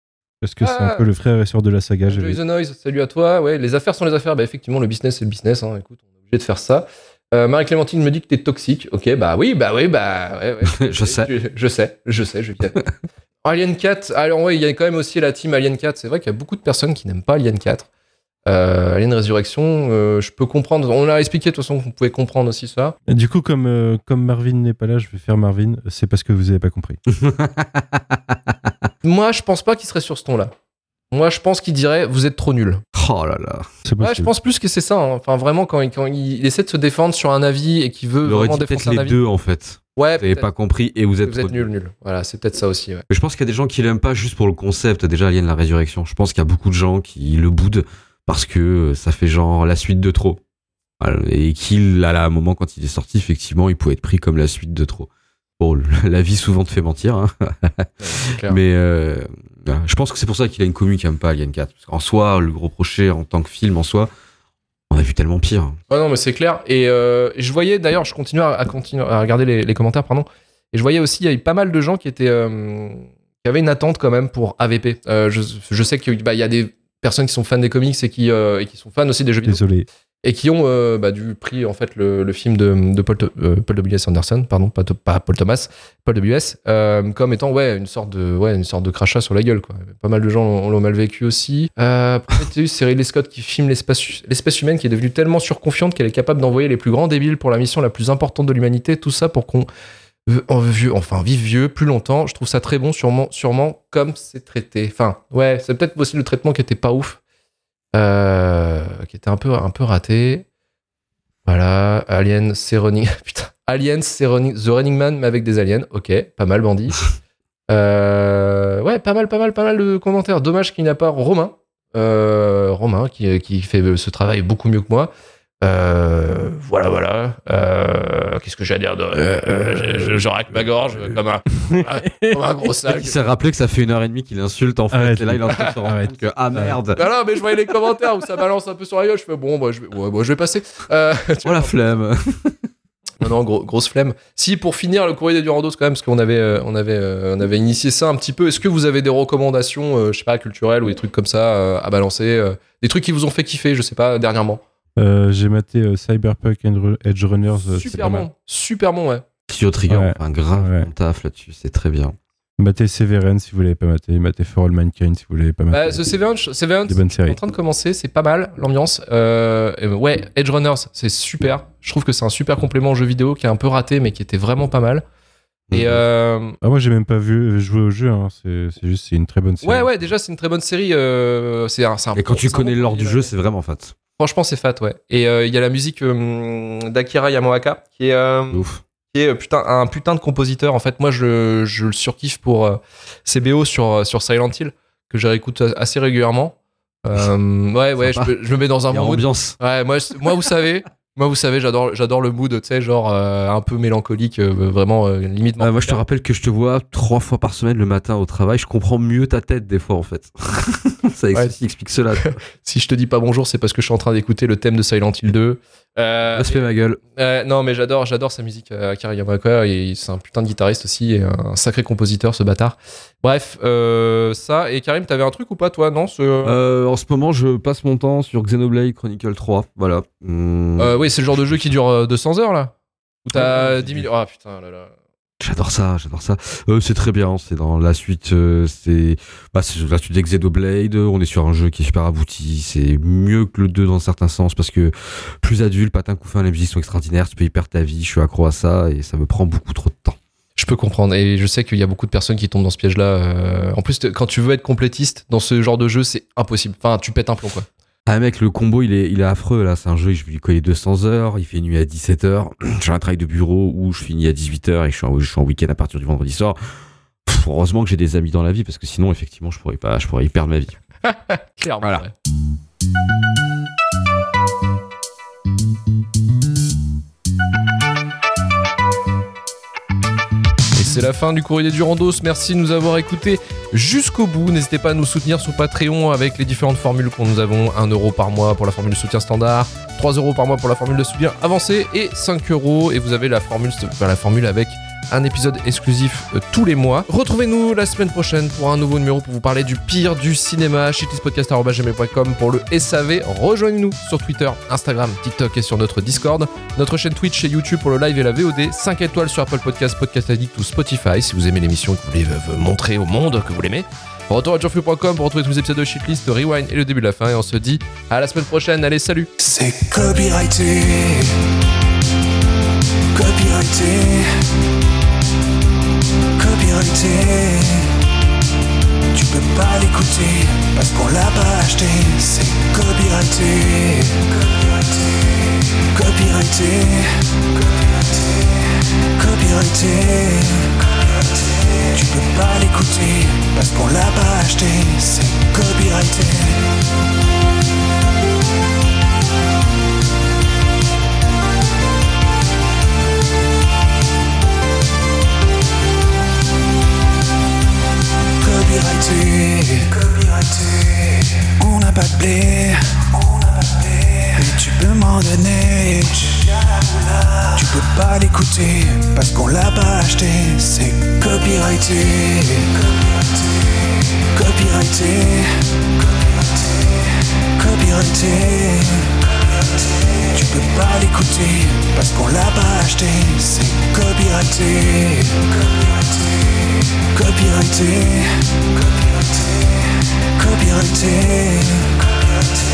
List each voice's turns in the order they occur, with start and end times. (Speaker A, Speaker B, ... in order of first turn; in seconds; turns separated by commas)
Speaker A: 0.4-2.4, Speaker B: 0.6-1.1, Speaker B: 2.1-12.8, Speaker C: 10.7-11.3, Speaker B: 13.4-17.9, Speaker B: 18.5-23.0, Speaker A: 23.1-27.0, Speaker C: 27.2-28.0, Speaker B: 29.0-30.5, Speaker B: 31.1-32.8, Speaker C: 33.0-33.7, Speaker A: 33.9-34.3, Speaker B: 34.0-39.2, Speaker C: 38.2-41.7, Speaker B: 40.0-40.5, Speaker B: 41.2-43.0, Speaker C: 43.1-50.4, Speaker C: 51.0-55.1, Speaker C: 55.6-64.1, Speaker B: 58.0-58.6, Speaker C: 64.9-65.8, Speaker B: 65.9-79.6, Speaker A: 79.4-79.9, Speaker B: 80.2-99.7, Speaker B: 100.3-107.2, Speaker B: 107.9-110.5, Speaker B: 111.5-117.0, Speaker B: 117.7-125.1, Speaker B: 125.6-133.2, Speaker C: 130.2-131.2, Speaker A: 131.7-132.4, Speaker C: 132.9-137.0, Speaker A: 134.9-136.8, Speaker B: 136.9-141.8, Speaker C: 141.4-142.7, Speaker B: 143.2-154.6, Speaker A: 155.0-158.3, Speaker B: 157.6-159.2, Speaker C: 159.5-162.2, Speaker A: 159.9-160.9, Speaker A: 162.6-166.1, Speaker B: 165.7-175.0, Speaker A: 166.9-167.4, Speaker C: 175.7-176.0, Speaker B: 175.7-176.6, Speaker A: 176.6-180.0, Speaker B: 179.6-183.3, Speaker C: 182.2-183.9, Speaker B: 184.2-206.0, Speaker C: 188.5-188.8, Speaker C: 198.0-198.3, Speaker C: 198.9-199.6, Speaker C: 205.6-212.4, Speaker B: 212.2-226.6, Speaker C: 216.3-217.0, Speaker C: 226.4-231.7, Speaker B: 230.8-232.7, Speaker B: 233.2-234.9, Speaker C: 233.3-234.1, Speaker C: 235.4-250.2, Speaker B: 250.6-257.7, Speaker C: 258.1-266.6, Speaker C: 267.3-270.8, Speaker B: 271.1-272.1, Speaker B: 280.7-319.3, Speaker D: 319.4-321.3, Speaker D: 323.1-324.3, Speaker D: 326.4-327.9, Speaker D: 329.1-334.4, Speaker D: 335.8-337.5, Speaker D: 339.0-340.9, Speaker D: 341.8-346.6, Speaker D: 358.4-372.9, Speaker D: 374.2-375.8, Speaker D: 377.4-379.3, Speaker D: 380.2-385.7, Speaker D: 387.0-388.7, Speaker D: 390.2-392.1